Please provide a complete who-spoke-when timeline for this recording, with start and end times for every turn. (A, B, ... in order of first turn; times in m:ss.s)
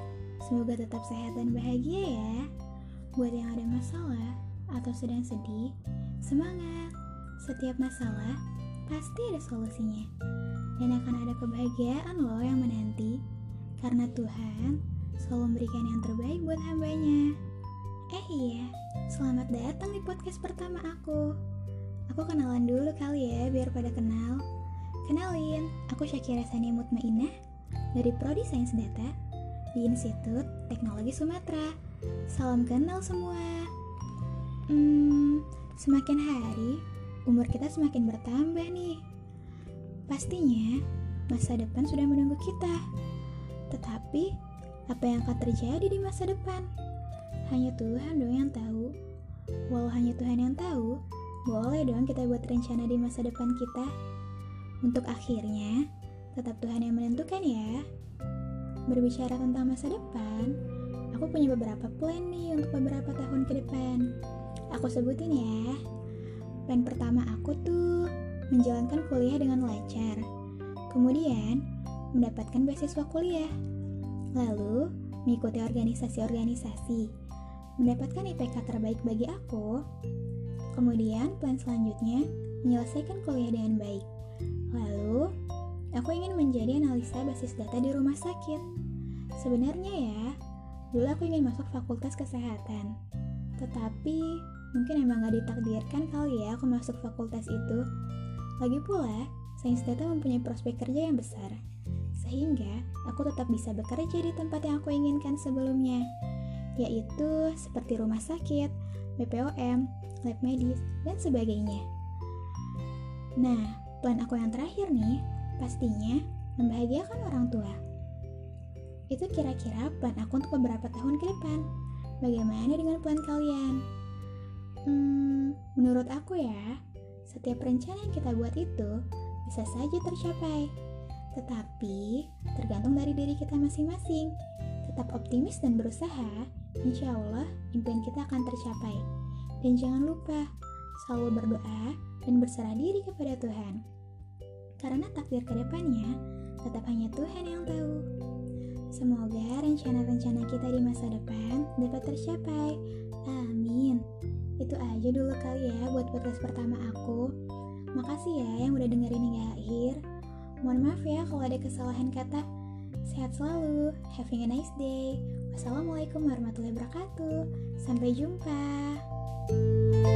0:00.4-0:02.5 A
0:03.2-0:10.1 A
0:10.8-0:13.2 A
0:13.8-0:17.4 A
0:18.1-0:21.4 A
0:22.1-0:24.4 A
0:25.0-0:27.3 A
0:28.0-0:29.1 A
0:29.8-0:31.8 A
0:32.3-0:33.7 A
0:34.7-0:39.0 A
0:40.1-0:42.8 A
0:43.7-0:44.3 A
0:44.9-0:46.7 A
0:47.5-0:48.9 A
0:49.7-0:53.9 A
0:54.8-0:57.8 A
0:58.9-1:00.6 A
1:01.1-1:04.1 A
1:04.7-1:05.8 A
1:06.7-1:10.2 A
1:10.9-1:11.6 A
1:12.1-1:13.5 A
1:14.4-1:17.1 A
1:17.8-1:19.8 A
1:20.7-1:24.1 A
1:24.7-1:25.3 A
1:26.0-1:28.6 A
1:29.4-1:30.4 A
1:30.9-1:32.9 A
1:33.6-1:37.8 A
1:38.6-1:41.6 A
1:42.2-1:46.1 A
1:46.8-1:51.8 A
1:53.4-1:57.8 A
1:59.1-2:01.6 A
2:02.2-2:03.8 A
2:04.9-2:10.7 A
2:11.3-2:19.0 A
2:19.6-2:23.8 A
2:24.8-2:28.0 A
2:29.0-2:34.0 A
2:34.6-2:37.3 A
2:38.0-2:40.0 A
2:40.6-2:42.4 A
2:43.1-2:49.0 A